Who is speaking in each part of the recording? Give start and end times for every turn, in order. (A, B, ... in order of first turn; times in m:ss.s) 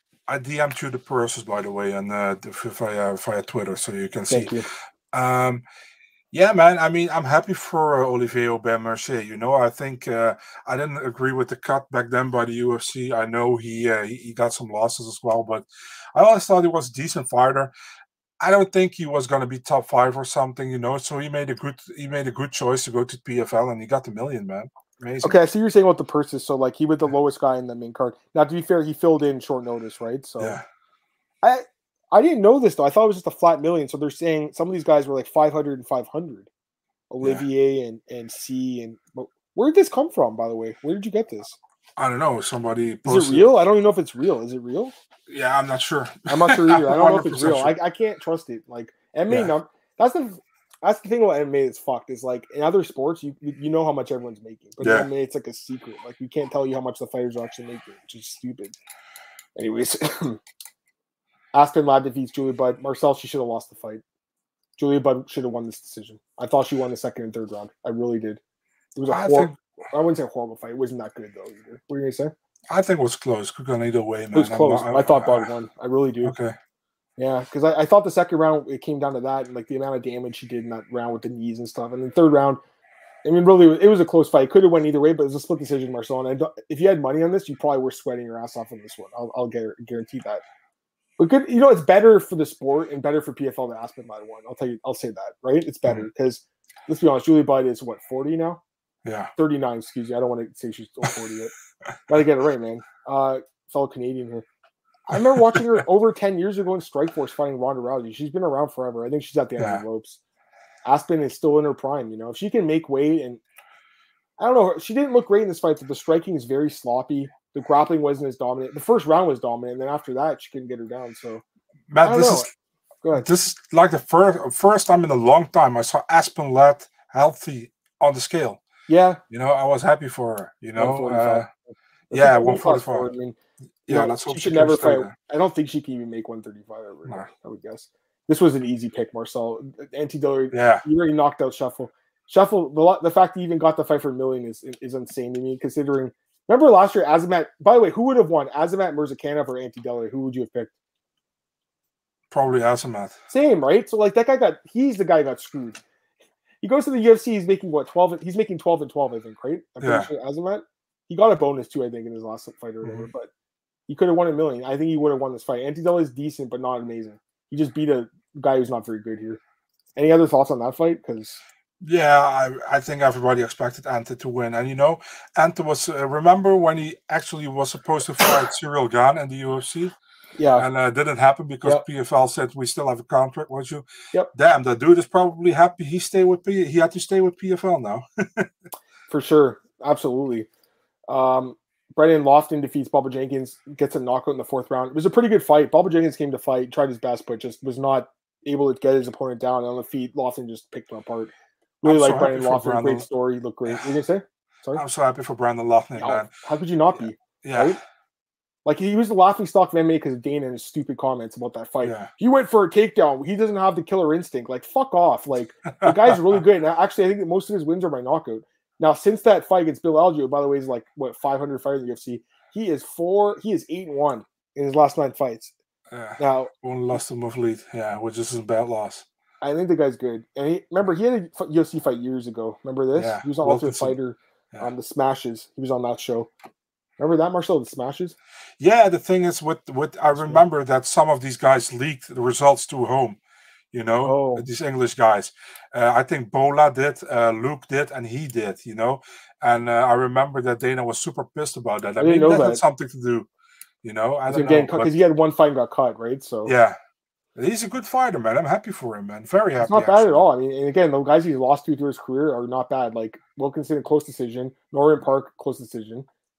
0:00.3-0:04.6 A
0:04.3-0:04.6 B
0:05.1-0:05.6 A
0:06.3-0:17.7 A
0:18.4-0:25.4 A
0:25.2-0:30.6 B
0:31.4-0:36.5 B
0:37.1-0:41.6 B
0:42.0-0:43.5 A
0:43.0-0:44.9 B
0:45.3-0:47.7 A
0:46.3-0:58.8 B
0:54.8-0:55.1 A
0:59.6-1:00.4 B
1:01.5-1:04.0 B
1:04.8-1:08.4 B
1:08.9-1:12.3 B
1:09.1-1:09.6 A
1:12.7-1:15.5 A
1:14.3-1:16.3 B
1:16.2-1:16.5 A
1:17.2-1:22.6 B
1:23.2-1:30.4 B
1:31.2-1:38.6 B
1:39.0-1:39.3 A
1:39.4-1:41.5 B
1:42.1-1:44.4 B
1:45.1-1:50.2 B
1:45.1-1:45.8 A
1:50.8-1:53.4 B
1:54.4-2:01.4 B
2:01.9-2:02.5 A
2:02.0-2:02.5 B
2:03.0-2:03.3 B
2:03.1-2:08.6 A
2:08.9-2:09.2 B
2:09.3-2:11.5 A
2:10.8-2:30.7 B
2:12.1-2:13.1 A
2:13.9-2:15.1 A
2:20.5-2:20.8 A
2:32.3-2:33.1 A
2:33.3-2:35.8 B
2:36.6-2:43.3 B
2:39.8-2:40.1 A
2:42.8-2:43.1 A
2:43.9-2:49.4 B
2:50.0-2:51.4 B
2:51.8-2:59.9 A
3:00.4-3:00.6 B
3:00.6-3:08.5 A
3:09.1-3:10.5 B
3:11.1-3:24.8 B
3:21.8-3:23.0 A
3:24.7-3:26.3 A
3:26.0-3:27.8 B
3:27.4-3:27.8 A
3:28.6-3:45.5 B
3:31.8-3:32.1 A
3:35.7-3:36.4 A
3:45.9-3:49.0 A
3:46.2-3:46.5 B
3:49.4-3:56.3 B
3:52.9-3:54.0 A
3:57.0-3:58.2 B
3:58.6-4:03.2 A
4:00.2-4:00.4 B
4:03.7-4:13.3 A
4:04.0-4:04.4 B
4:12.0-4:12.6 B
4:13.8-4:15.0 A
4:14.3-4:16.5 B
4:16.4-4:16.8 A
4:17.4-4:20.2 A
4:19.6-4:26.0 B